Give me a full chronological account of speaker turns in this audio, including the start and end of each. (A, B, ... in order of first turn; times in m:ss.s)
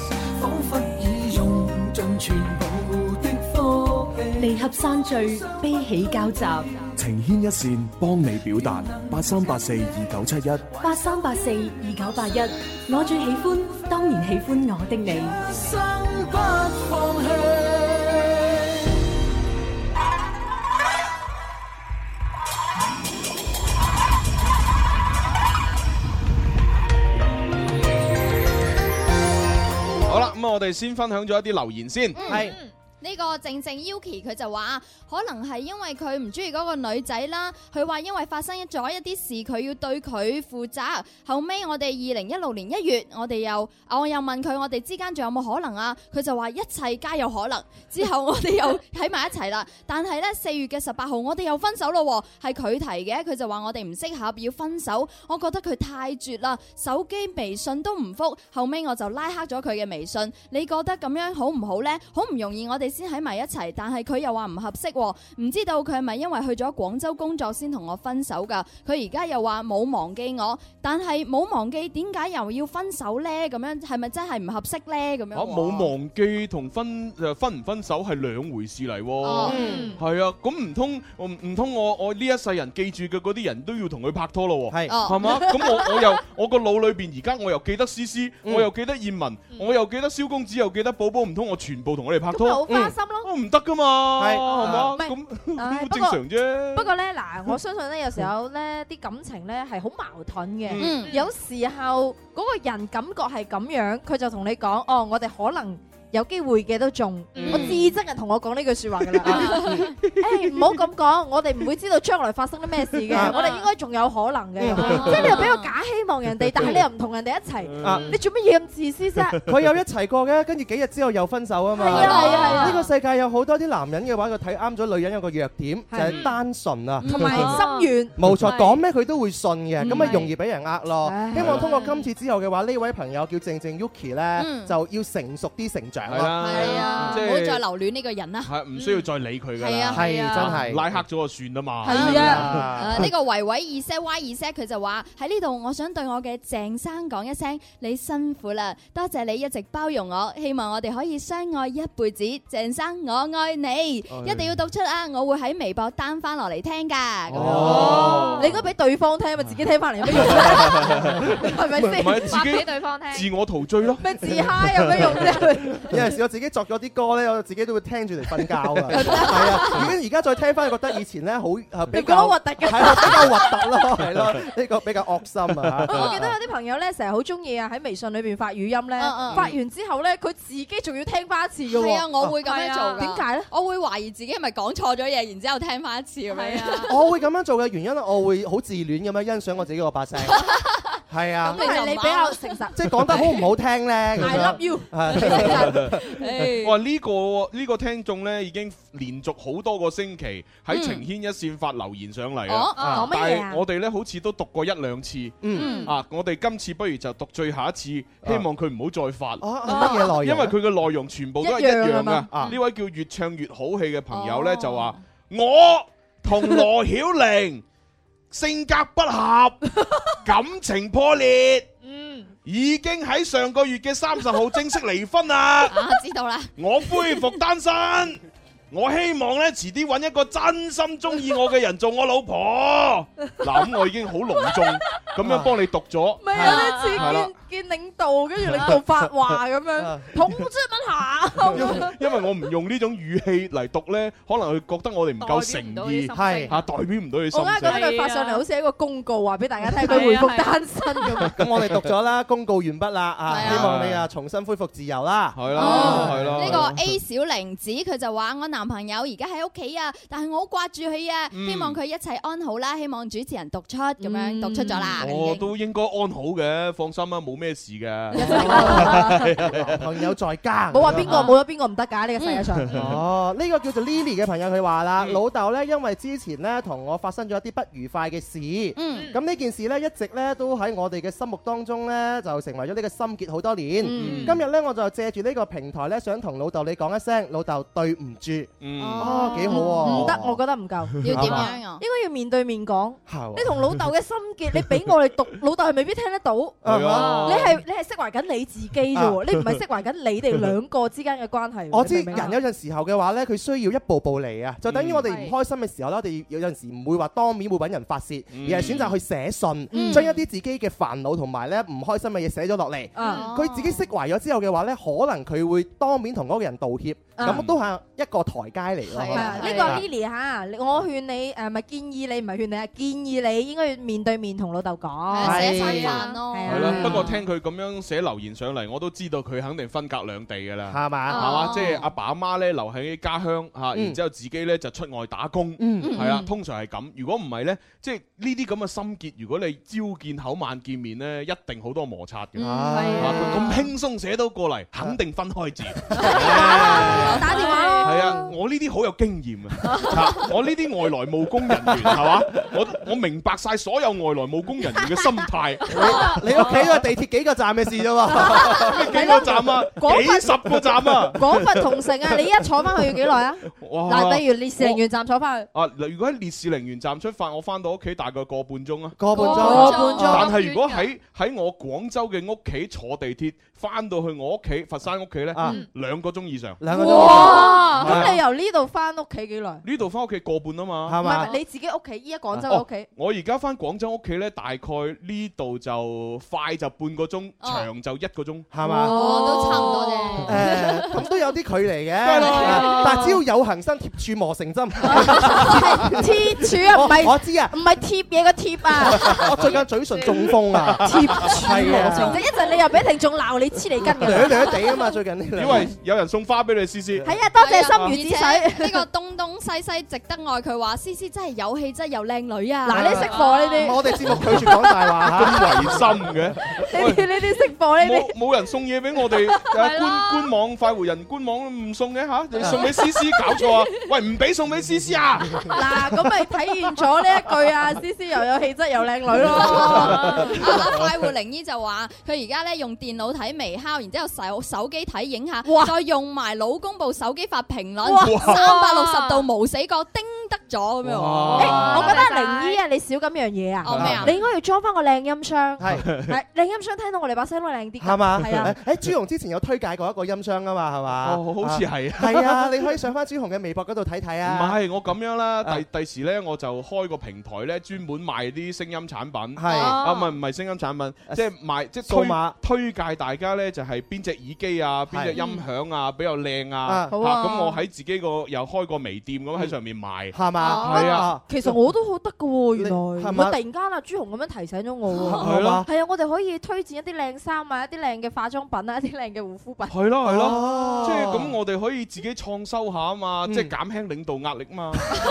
0:00.3-0:04.6 A
0:04.4-0:06.7 B
0:05.2-0:05.8 A
0:07.0-0:10.6 C
0:08.4-0:10.0 A
0:10.8-0:15.4 B
0:15.3-0:18.6 A
0:30.1-0:32.4 D
0:32.1-1:15.9 E
0:32.2-0:32.5 F
0:32.4-0:32.7 G
1:15.3-1:32.7 D
1:19.2-1:19.6 E
1:19.4-1:19.9 F
1:19.5-1:20.0 G
1:24.7-1:24.9 F
1:24.9-1:25.4 E
1:32.3-1:33.3 H
1:32.7-1:32.9 F
1:33.2-1:36.9 D
1:34.2-1:34.9 F
1:34.5-1:36.2 H
1:36.7-1:59.4 H
1:40.7-1:41.1 D
1:40.8-1:41.1 E
1:47.3-1:47.6 G
1:47.5-1:47.7 F
1:49.3-1:49.9 F
1:53.1-1:53.4 F
1:53.3-1:53.6 G
1:54.6-1:55.4 F
1:55.1-1:55.7 E
1:57.6-1:58.2 D
1:57.8-1:58.1 F
1:59.4-2:07.6 F
2:01.8-2:02.9 H
2:01.9-2:02.8 E
2:05.9-2:06.2 H
2:07.0-2:07.6 E
2:07.0-2:08.2 H
2:07.4-2:07.9 G
2:08.2-2:17.2 F
2:08.3-2:08.5 D
2:08.5-2:08.8 G
2:09.8-2:10.2 D
2:11.0-2:11.8 H
2:11.3-2:11.9 D
2:14.4-2:14.7 E
2:16.1-2:17.6 D
2:16.4-2:20.2 E
2:16.6-2:17.0 H
2:18.4-2:23.1 D
2:19.9-2:20.9 F
2:20.0-2:20.5 G
2:21.8-2:22.5 H
2:21.9-2:38.2 E
2:21.9-2:23.1 F
2:34.1-2:34.4 D
2:37.3-2:38.6 D
2:37.3-2:38.3 F
2:37.6-2:42.4 H
2:38.0-2:38.4 G
2:40.1-2:41.4 D
2:41.9-2:45.4 D
2:42.2-2:43.3 G
2:44.0-2:45.9 H
2:45.9-2:56.2 F
2:48.9-2:49.7 H
2:51.9-2:53.5 H
2:55.8-3:02.0 H
2:55.9-2:56.2 E
2:59.0-2:59.5 E
3:01.7-3:06.9 E
3:02.4-3:03.0 G
3:03.0-3:03.5 H
3:06.3-3:06.9 G
3:06.9-3:10.4 F
3:10.3-3:13.2 E
3:11.1-3:11.6 F
3:11.5-3:13.2 H
3:12.7-3:16.0 F
3:14.2-3:15.9 H
3:15.5-3:15.9 D
3:16.2-3:16.8 E
3:16.6-3:37.6 D
3:20.7-3:21.0 E
3:22.5-3:22.8 E
3:22.8-3:23.6 H
3:22.8-3:23.1 F
3:25.4-3:25.7 F
3:25.5-3:25.9 E
3:25.6-3:25.9 H
3:29.4-3:30.6 F
3:29.7-3:30.1 H
3:31.4-3:32.3 H
3:32.3-3:32.6 F
3:34.1-3:35.0 E
3:38.3-3:39.6 D
3:40.2-3:41.7 D
3:41.8-3:42.3 G
3:42.4-3:45.8 D
3:45.7-3:46.5 E
3:46.6-3:48.2 D
3:48.7-3:57.3 D
3:55.2-3:55.5 F
3:56.2-4:01.9 H
3:56.5-3:56.8 G
3:59.8-4:00.1 F
4:01.5-4:07.8 D
4:05.2-4:06.6 G
4:06.1-4:06.6 F
4:07.3-4:11.3 H
4:07.6-4:08.4 G
4:09.8-4:10.6 G
4:11.3-4:16.6 F
4:13.3-4:13.7 E
4:13.4-4:14.0 D
4:15.3-4:16.9 D
4:15.5-4:25.2 E
4:15.5-4:16.1 H
4:21.3-4:21.8 D
4:24.0-4:25.4 H
4:25.0-4:29.8 D
4:28.1-4:29.3 H
4:28.2-4:31.2 F
4:30.7-4:32.7 H
4:32.2-4:32.5 E
4:32.7-4:33.0 D
4:32.7-4:50.4 F
4:38.8-4:39.1 E
4:43.9-4:44.2 H
4:43.9-4:44.4 E
4:43.9-4:44.4 D
4:48.6-4:50.2 D
4:48.8-4:49.7 E
4:49.5-4:51.1 H
4:51.0-4:51.4 D
4:51.0-4:51.8 E
4:51.1-4:51.5 F
4:51.8-5:02.4 H
4:53.1-4:53.5 F
4:56.6-4:57.4 F
4:56.6-4:57.5 D
4:56.9-4:57.3 G
5:01.7-5:19.8 F
5:04.6-5:05.1 D
5:05.0-5:05.3 G
5:08.3-5:08.9 D
5:09.7-5:10.1 H
5:09.7-5:10.1 E
5:13.0-5:13.3 H
5:13.0-5:13.3 G
5:13.0-5:13.8 E
5:17.2-5:17.4 H
5:17.2-5:17.6 D
5:18.9-5:19.8 E
5:19.1-5:27.1 H
5:25.1-5:27.1 E
5:25.2-5:26.0 F
5:26.4-5:47.2 D
5:26.7-5:27.0 F
5:30.7-5:31.2 F
5:31.1-5:31.6 G
5:31.2-5:31.8 E
5:35.6-5:35.9 F
5:35.8-5:36.3 E
5:42.4-5:43.6 F
5:42.4-5:42.8 E
5:42.7-5:43.6 G
5:45.9-5:47.1 F
5:46.0-5:48.3 H
5:47.3-5:48.0 G
5:47.8-5:56.6 D
5:47.9-5:48.2 F
5:49.6-5:50.3 G
5:55.7-5:58.7 F
5:58.1-6:05.5 H
5:58.5-6:01.6 D
6:03.5-6:04.8 D
6:05.5-6:18.2 D
6:09.0-6:10.4 F
6:09.2-6:10.6 E
6:09.2-6:10.3 H
6:10.4-6:10.8 G
6:15.3-6:15.6 F
6:15.4-6:15.7 G
6:16.6-6:18.1 F
6:16.7-6:19.6 H
6:19.6-6:21.1 D
6:20.8-6:21.3 F
6:21.0-6:22.9 H
6:22.5-6:28.5 D
6:27.4-6:27.7 E
6:28.5-6:29.6 F
6:28.6-6:30.4 H
6:28.9-6:30.8 E
6:30.2-6:37.6 F
6:32.0-6:32.4 D
6:32.3-6:32.8 H
6:32.4-6:32.9 E
6:34.8-6:39.5 H
6:38.8-6:42.2 F
6:40.8-6:44.8 H
6:41.5-6:42.3 E
6:44.0-6:45.7 F
6:45.3-6:47.1 D
6:47.0-6:48.8 H
6:47.4-6:53.7 E
6:52.6-6:55.2 H
6:52.7-6:55.9 F
6:54.1-6:54.4 D
6:55.1-6:57.1 D
6:56.7-6:58.2 H
6:57.8-7:05.5 D
6:59.6-7:00.1 G
7:05.4-7:10.3 H
7:09.4-7:22.0 E
7:15.4-7:15.7 H
7:17.8-7:18.3 H
7:18.0-7:18.4 D
7:18.3-7:19.2 G
7:20.8-7:22.0 D
7:21.4-7:28.5 H
7:21.4-7:22.6 G
7:23.6-7:24.1 E
7:23.7-7:24.1 D
7:25.6-7:25.9 F
7:25.7-7:26.2 D
7:27.8-7:34.6 F
7:31.0-7:32.5 D
7:34.2-7:51.1 D
7:39.4-7:39.8 F
7:39.5-7:40.1 G
7:41.8-7:42.4 F
7:44.9-7:45.2 F
7:45.2-7:45.4 E
7:46.6-7:46.9 F
7:46.9-7:47.6 H
7:50.1-7:51.5 F
7:50.4-8:01.1 H
7:52.5-7:53.4 F
7:55.1-7:55.7 F
7:55.2-7:55.6 D
7:59.7-8:04.8 D
8:00.0-8:01.3 F
8:03.2-8:03.5 F